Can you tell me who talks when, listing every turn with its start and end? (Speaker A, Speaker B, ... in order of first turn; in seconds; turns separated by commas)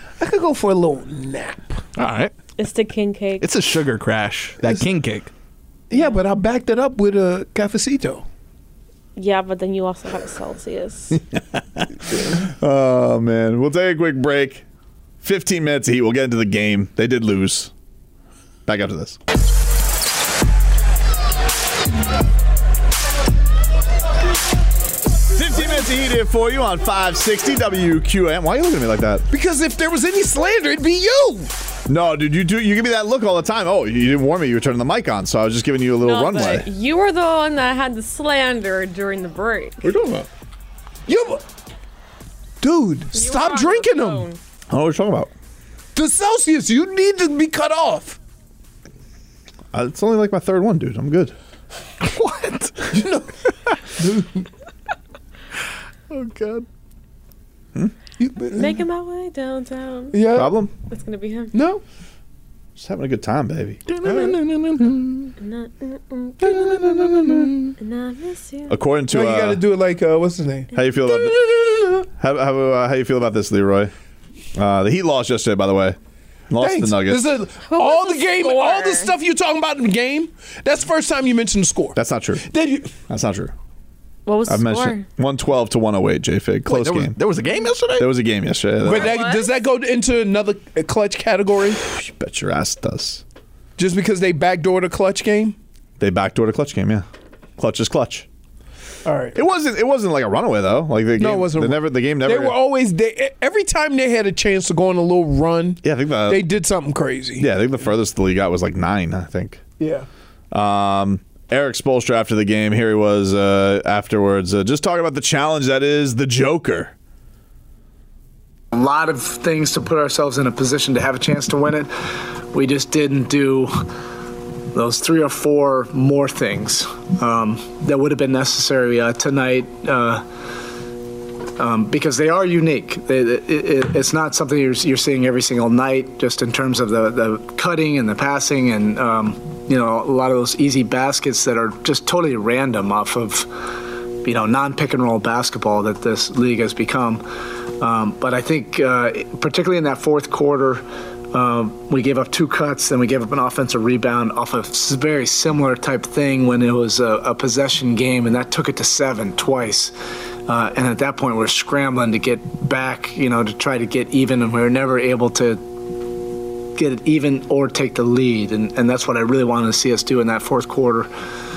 Speaker A: 0.2-1.8, Speaker B: 2.0-2.3, Speaker C: 2.6-3.5, Speaker B: 3.4-5.3, Speaker A: 4.6-4.9, Speaker A: 5.9-8.2, Speaker C: 5.9-6.2, Speaker C: 9.2-11.2, Speaker D: 12.4-14.6, Speaker D: 15.2-17.7, Speaker D: 18.7-19.2, Speaker D: 25.3-29.3, Speaker A: 29.3-31.5, Speaker D: 31.9-36.7, Speaker C: 36.0-39.9, Speaker D: 39.8-40.3, Speaker A: 41.1-41.4, Speaker A: 42.6-44.3, Speaker C: 43.1-44.4, Speaker D: 44.7-45.3, Speaker A: 46.0-48.2, Speaker D: 49.7-51.4, Speaker B: 52.0-52.8, Speaker A: 52.9-53.3, Speaker A: 53.9-54.5, Speaker B: 56.1-56.7, Speaker A: 58.2-58.8, Speaker C: 58.5-60.3, Speaker A: 60.1-60.5, Speaker D: 60.3-60.7, Speaker C: 60.9-61.5, Speaker A: 61.5-61.8, Speaker D: 62.8-63.8, Speaker B: 63.9-65.3, Speaker C: 65.4-66.6, Speaker D: 66.6-67.4, Speaker B: 66.6-67.7, Speaker C: 67.8-68.8, Speaker D: 68.7-69.6, Speaker A: 69.1-70.7, Speaker D: 70.7-73.9, Speaker D: 74.5-76.0, Speaker D: 76.5-77.3, Speaker A: 76.6-82.9, Speaker C: 77.7-79.1, Speaker D: 82.0-82.5, Speaker D: 83.0-83.5, Speaker C: 84.3-85.1, Speaker D: 84.5-87.2, Speaker B: 86.7-88.1, Speaker D: 88.0-89.2, Speaker A: 88.8-91.8, Speaker C: 88.9-89.5, Speaker D: 91.8-93.2, Speaker A: 93.8-95.6, Speaker D: 96.0-97.0, Speaker D: 97.6-98.3, Speaker A: 99.0-99.4, Speaker D: 99.3-102.6, Speaker A: 101.2-107.5, Speaker D: 105.8-106.5, Speaker D: 107.4-109.6, Speaker A: 109.8-110.1, Speaker D: 110.5-116.9, Speaker E: 118.7-123.7, Speaker E: 124.7-130.2, Speaker E: 131.6-143.5, Speaker E: 144.2-147.2, Speaker E: 147.8-159.9, Speaker E: 160.5-165.6, Speaker E: 166.8-171.1